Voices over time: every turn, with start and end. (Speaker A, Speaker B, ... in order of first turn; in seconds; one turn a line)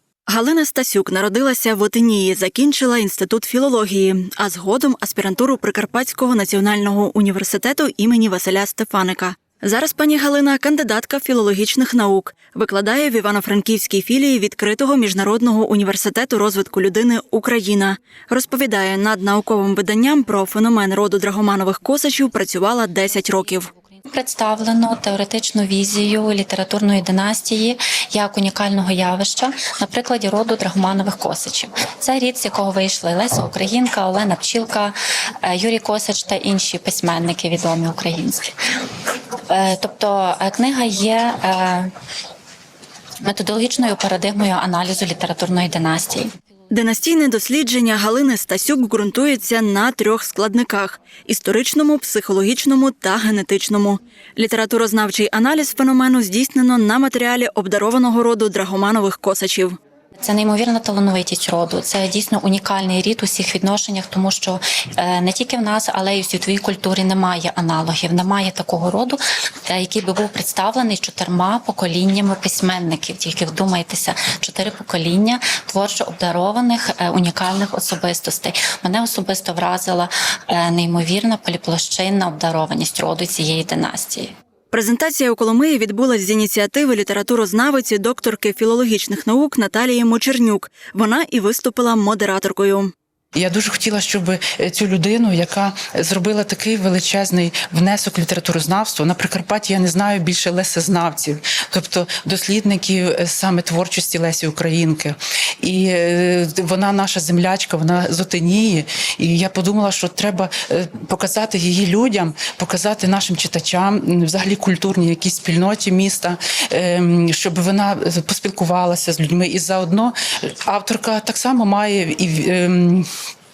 Speaker A: 0.3-23.7
Speaker B: 23.3-38.5
Speaker B: 39.5-41.9
Speaker B: 43.2-46.3
Speaker A: 46.7-59.8
Speaker B: 60.2-84.3
Speaker A: 84.7-92.9
Speaker C: 93.3-123.1